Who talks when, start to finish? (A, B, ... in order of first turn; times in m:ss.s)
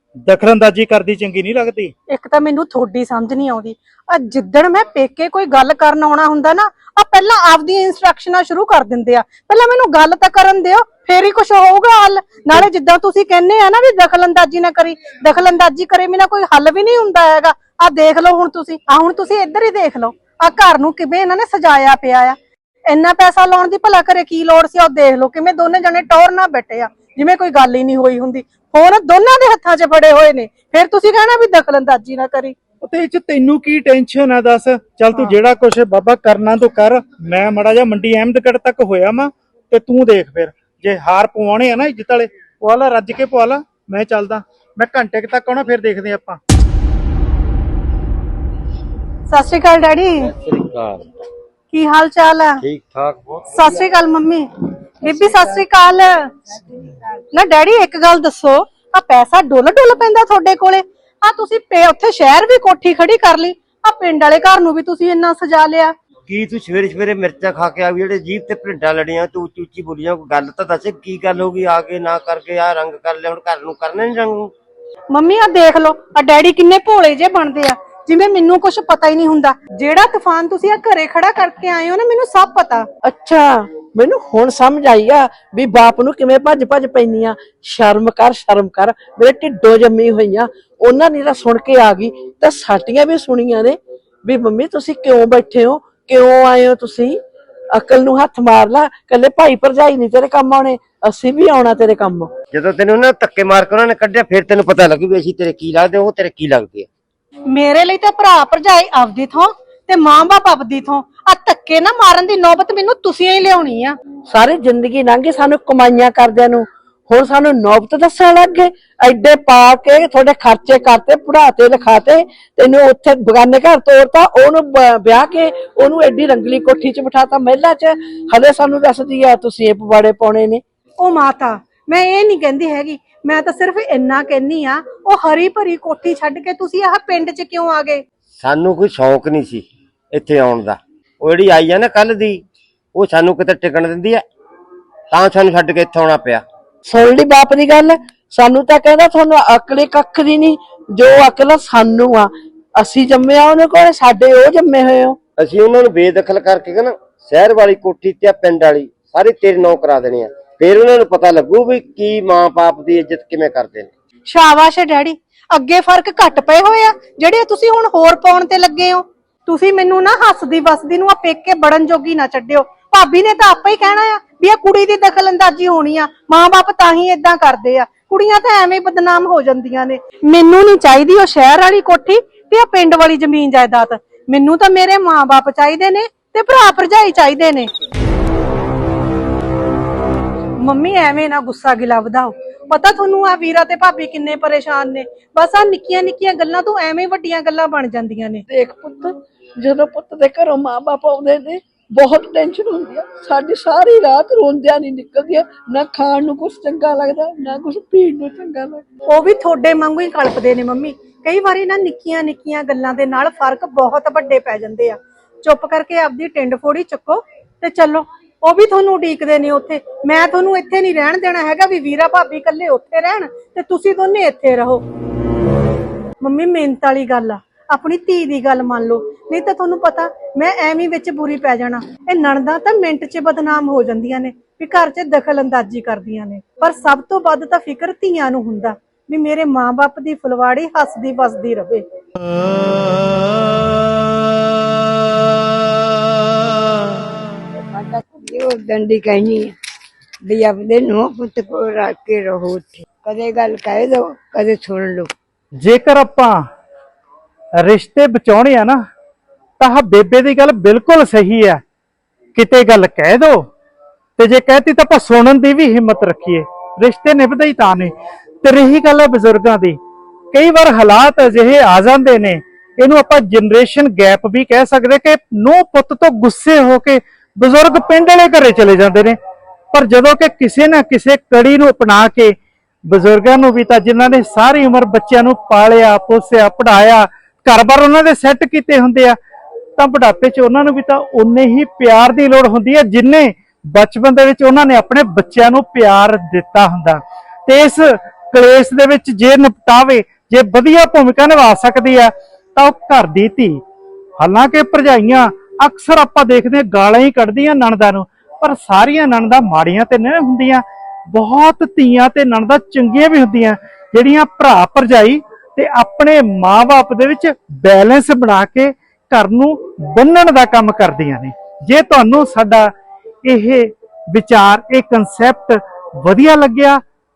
0:00.3-0:01.9 A
0:02.1-0:22.4 B
0:22.9-0:32.6 B
0:32.8-0:46.4 A
0:49.3-0:50.3 B
0:50.3-0:51.0 C
0:51.7-0:52.6 B
0:52.6-0:53.5 C
0:53.5-0:54.5 B
0:55.0-0:56.3 B
0:57.3-1:05.9 B
1:06.3-1:14.5 C
1:15.1-1:22.9 B
1:23.0-1:37.2 D
1:37.7-1:42.3 D
1:42.5-1:46.9 C
1:47.5-1:54.0 B
1:54.3-2:10.6 D
2:11.0-2:18.0 B
2:18.4-2:22.4 C
2:22.9-2:24.2 C
2:25.1-2:26.4 C
2:26.8-2:35.2 D
2:35.4-2:43.9 C
2:44.3-3:07.7 B
3:10.6-3:18.4 B
3:18.5-3:28.8 D
3:29.1-3:44.8 B
3:46.2-4:01.8 B
4:07.6-4:09.5 E
4:10.2-4:15.1 E
4:15.6-4:16.3 A
4:17.6-4:18.8 A
4:19.6-4:21.6 A
4:22.4-4:23.4 A
4:24.2-4:29.8 A
4:30.3-4:39.2 A
4:39.7-4:42.4 A
4:42.9-4:49.2 A
4:49.8-5:03.6 A
5:04.2-5:22.7 A
5:23.2-5:26.8 A